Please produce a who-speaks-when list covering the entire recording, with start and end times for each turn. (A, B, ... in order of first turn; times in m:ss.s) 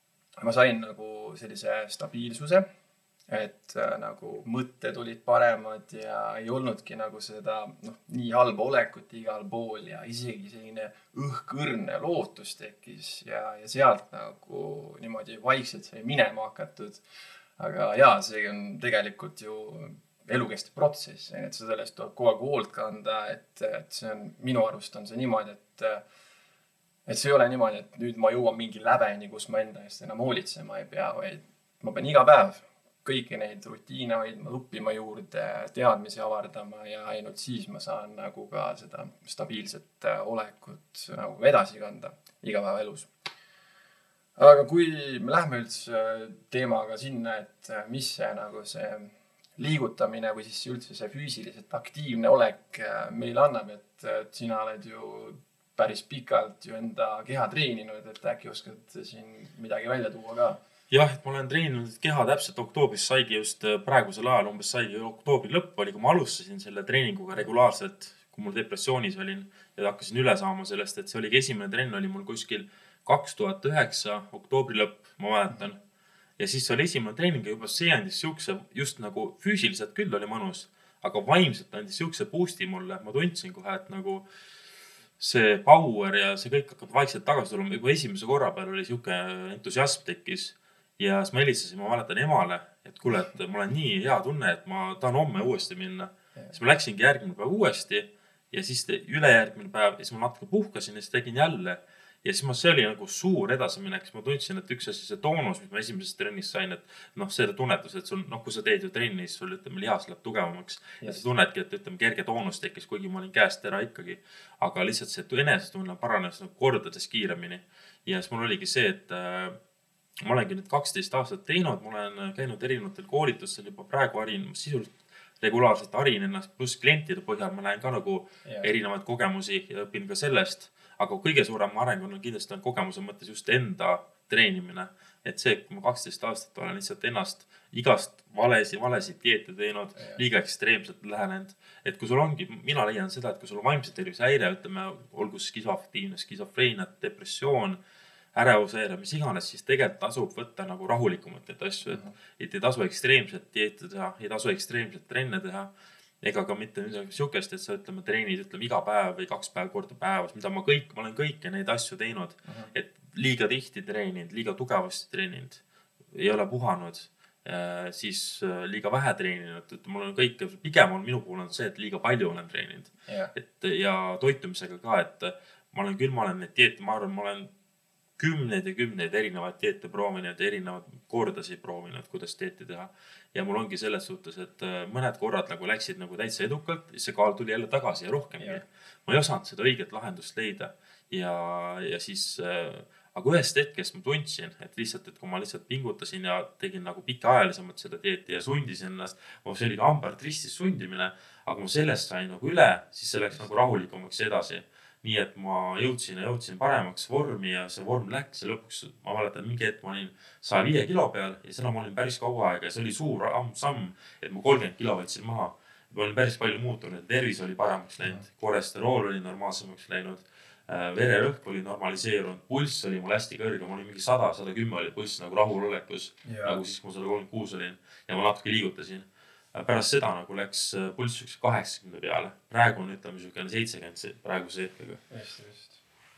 0:00.4-0:02.6 A
0:03.3-0:17.0 A
0:17.6-0:26.0 A
0:27.1-0:43.1 A
0:44.4-1:00.6 A
1:00.9-1:15.8 B
1:16.4-1:24.2 B
1:25.2-1:59.6 B
2:00.2-2:27.8 B
2:08.4-2:08.7 A
2:20.0-2:20.2 A
2:28.3-2:35.7 B
2:31.9-2:32.1 A
2:36.2-2:57.5 B
2:42.4-2:42.7 A
2:53.1-2:53.3 A
2:58.2-3:55.0 B
3:46.2-3:46.6 A
3:55.1-3:55.8 A